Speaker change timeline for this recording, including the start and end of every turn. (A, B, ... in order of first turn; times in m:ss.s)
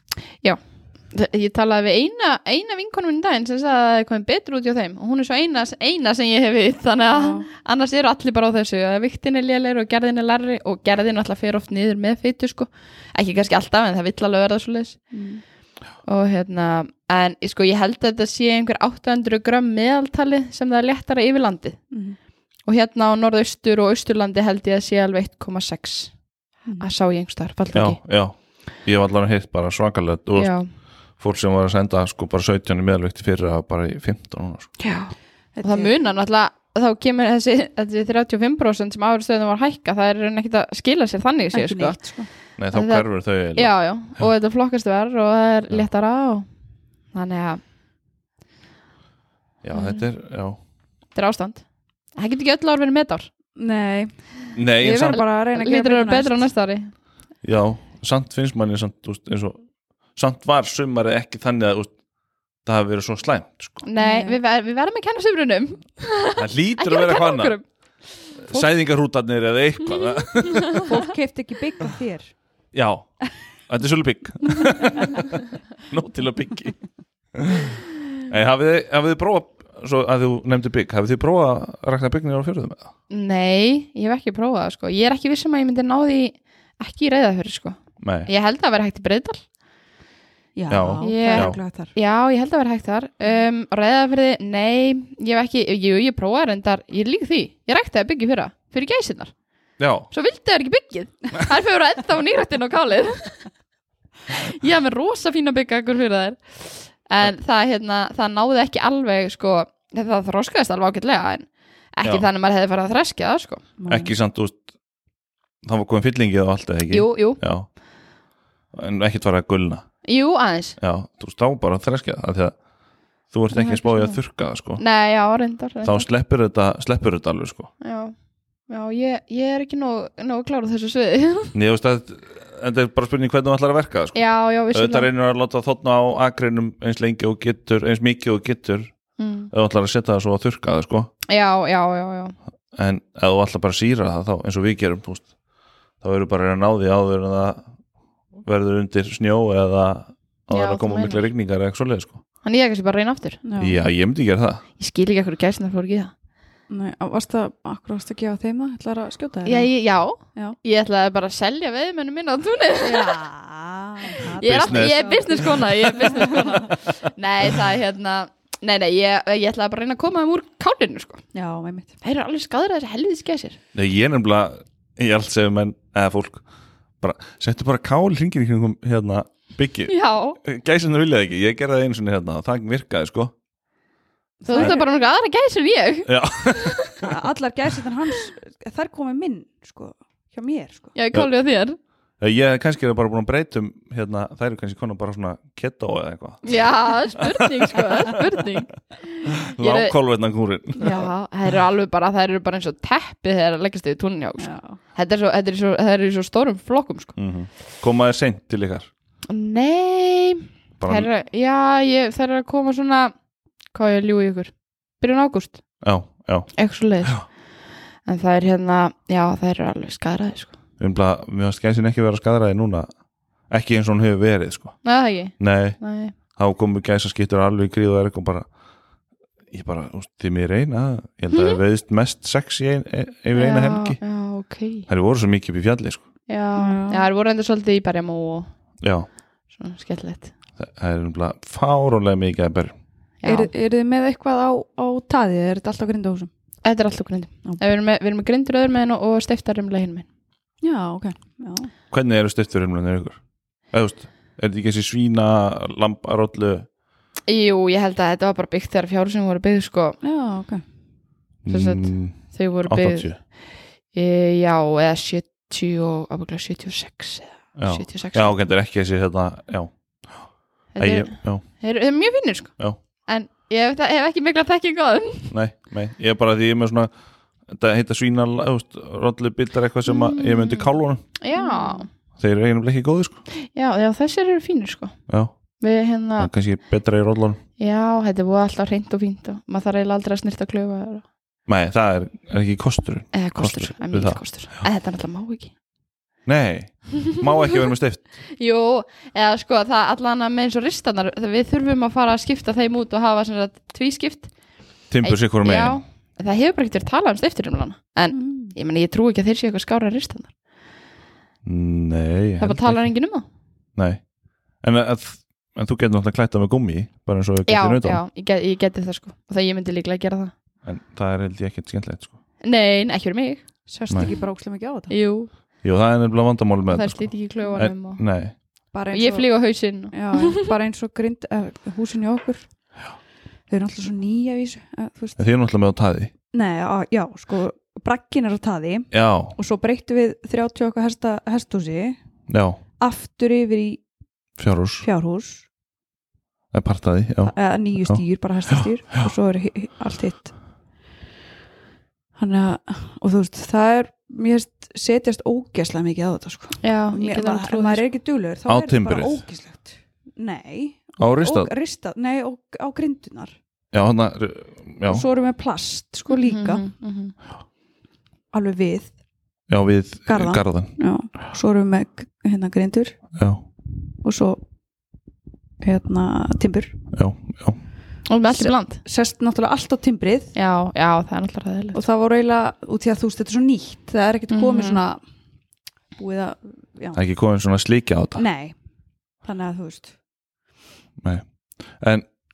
0:01.1-0:15.0 A
0:07.1-0:07.5 B
0:15.1-0:15.4 B
0:16.0-0:21.8 A
0:21.9-0:22.2 B
0:22.7-0:26.1 A
0:26.8-0:28.0 A
0:27.7-0:30.5 C
0:30.4-0:30.7 A
0:31.2-0:34.7 C
0:34.8-0:42.0 A
0:35.6-0:35.9 B
0:41.5-0:42.3 B
0:42.6-0:44.2 C
0:42.7-0:46.4 A
0:47.1-0:47.6 A
0:49.6-0:50.6 C
0:49.7-0:50.0 A
0:51.1-0:51.6 A
0:52.2-0:53.3 A
0:53.6-0:56.5 B
0:54.5-0:55.2 C
0:55.1-0:56.9 A
0:57.4-0:59.6 C
1:00.2-1:01.9 C
1:02.6-1:03.8 C
1:03.8-1:07.6 A
1:04.0-1:04.4 B
1:06.4-1:07.6 C
1:08.4-1:10.8 C
1:10.4-1:10.9 A
1:10.8-1:12.3 B
1:12.7-1:16.8 C
1:14.8-1:15.1 B
1:17.3-1:22.9 C
1:23.1-1:29.4 A
1:28.0-1:28.3 C
1:30.6-1:31.9 B
1:30.7-1:31.6 C
1:31.0-1:39.3 A
1:39.8-1:40.1 C
1:40.1-1:43.5 A
1:44.3-1:53.6 A
1:53.8-1:54.1 B
1:53.9-1:54.6 C
1:55.6-1:57.7 C
1:56.9-1:57.4 A
1:58.7-1:59.8 C
2:00.0-2:00.8 A
2:00.8-2:02.6 C
2:03.3-2:04.8 C
2:03.6-2:04.1 B
2:04.8-2:06.1 A
2:05.8-2:07.7 C
2:07.8-2:08.1 A
2:08.7-2:11.5 A
2:11.5-2:18.9 C
2:14.1-2:15.1 A
2:19.2-2:19.5 A
2:19.5-2:21.1 C
2:21.3-2:22.3 A
2:22.7-2:25.3 C
2:26.0-2:27.6 C
2:28.4-2:32.2 C
2:30.5-2:31.2 A
2:32.4-2:33.4 A
2:33.4-2:33.8 B
2:33.6-2:34.6 C
2:34.8-2:36.1 A
2:36.7-2:39.7 B
2:39.4-2:43.2 A
2:42.8-2:46.7 B
2:44.1-2:51.2 A
2:44.4-2:45.5 C
2:51.3-2:51.9 B
2:52.0-2:53.6 A
2:53.7-2:56.4 C
2:57.0-3:03.3 C
2:59.9-3:00.4 A
3:04.4-3:04.9 B
3:04.4-3:07.0 A
3:06.1-3:06.9 C
3:07.0-3:10.9 B
3:10.9-3:11.8 A
3:12.2-3:18.2 C
3:16.4-3:19.9 A
3:19.4-3:21.1 C
3:20.8-3:27.1 A
3:24.4-3:24.8 B
3:27.2-3:28.9 C
3:29.3-3:33.1 A
3:30.8-3:31.1 C
3:33.7-3:35.6 A
3:35.8-3:36.5 C
3:36.5-3:37.3 A
3:38.0-3:40.5 A
3:40.8-3:42.9 C
3:43.5-3:44.8 C
3:44.8-3:46.1 A
3:45.4-3:48.4 C
3:49.5-3:54.0 C
3:51.3-3:51.6 A
3:53.3-3:54.9 A
3:54.9-3:56.0 C
3:56.3-3:58.5 A
3:56.6-3:57.1 B
3:58.8-3:59.1 C
3:59.5-4:00.3 A
4:00.6-4:02.8 C
4:03.2-4:03.5 A
4:03.2-4:06.3 B
4:06.6-4:10.0 A
4:10.6-4:11.7 B
4:11.9-4:13.2 C
4:13.7-4:16.7 C
4:17.3-4:20.0 A
4:20.0-4:20.6 B
4:21.4-4:23.2 C
4:21.5-4:23.2 A
4:23.9-4:28.4 A
4:27.6-4:30.2 C
4:30.7-4:32.5 A
4:30.8-4:31.4 C
4:33.0-4:35.3 A
4:35.3-4:36.9 C
4:37.5-4:41.0 C
4:39.8-4:41.9 A
4:41.4-4:41.8 B
4:42.1-4:43.2 C
4:43.3-4:45.0 A
4:45.1-4:45.3 C
4:45.6-4:46.3 A
4:46.2-4:47.4 C
4:47.6-4:51.0 A
4:51.5-4:54.2 C
4:53.1-4:55.5 A
4:56.2-4:58.0 C
4:58.4-5:04.3 A
5:04.9-5:05.8 C
5:05.0-5:10.3 A
5:08.1-5:08.5 B
5:11.4-5:12.8 C
5:12.4-5:13.2 A
5:13.8-5:14.0 C
5:14.6-5:18.0 C
5:17.5-5:20.3 A
5:20.6-5:22.1 C
5:22.4-5:23.4 A
5:23.7-5:24.9 B
5:24.9-5:25.3 A
5:25.6-5:28.3 C
5:26.7-5:28.0 A
5:28.7-5:29.3 B
5:28.9-5:30.5 A
5:29.9-5:32.5 B
5:33.5-5:35.2 B
5:35.2-5:36.1 C
5:36.3-5:42.0 B
5:38.9-5:39.3 C
5:42.3-5:42.6 C
5:42.8-5:43.8 B
5:44.4-5:44.9 C
5:44.8-5:45.4 B
5:46.5-5:49.1 C
5:47.2-5:50.3 B
5:52.2-6:03.3 B
5:56.6-5:57.8 A
5:58.5-5:59.2 C
6:01.0-6:01.5 C
6:03.7-6:05.0 C
6:04.9-6:06.6 B
6:06.1-6:07.1 A
6:08.3-6:08.9 B
6:09.5-6:10.7 C
6:10.1-6:13.0 B
6:13.2-6:13.4 C
6:14.0-6:14.4 B
6:15.6-6:16.7 B
6:16.9-6:17.6 C
6:18.1-6:18.8 A
6:18.3-6:20.3 B
6:20.3-6:21.8 A
6:21.7-6:25.0 B
6:24.3-6:24.8 A
6:26.0-6:27.0 B
6:26.9-6:28.2 C
6:28.2-6:28.5 B
6:29.2-6:29.9 B
6:31.0-6:32.0 C